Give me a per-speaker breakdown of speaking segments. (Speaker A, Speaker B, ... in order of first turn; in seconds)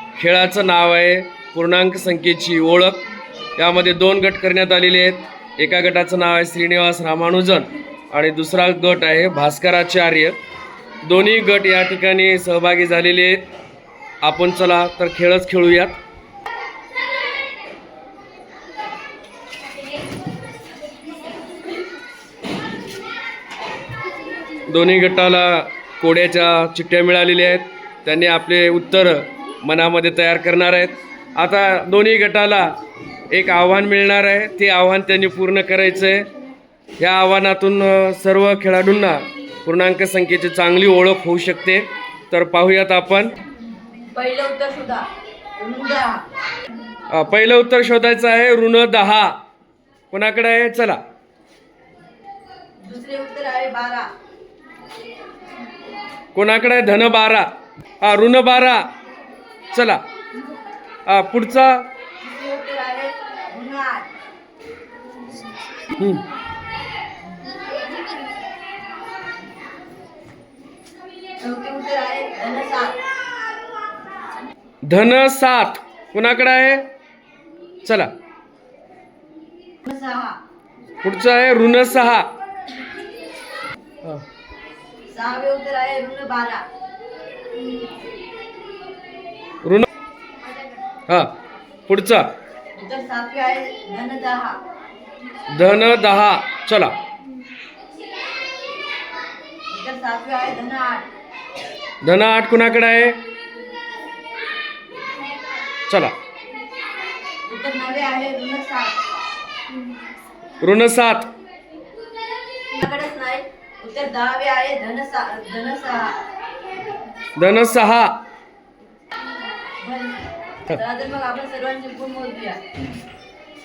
Speaker A: 0.2-3.0, 3.6-10.4, 11.0-13.5, 14.2-16.0, 24.7-32.8, 33.3-36.3, 37.0-43.4, 47.1-49.3, 50.1-51.0, 56.3-57.5, 58.0-58.9, 59.7-60.0, 61.0-61.9, 66.0-66.2, 74.8-76.9, 77.8-78.1, 81.0-82.3, 91.1-91.3, 91.9-92.3, 95.5-97.0, 102.0-103.2, 105.9-106.1, 110.6-111.3, 117.3-118.2
Speaker B: 44.1-46.2, 52.8-54.1, 62.2-64.1, 71.4-73.0, 79.8-80.4, 85.1-86.6, 92.7-94.6, 99.7-101.1, 107.5-108.9, 112.7-116.2, 119.8-122.6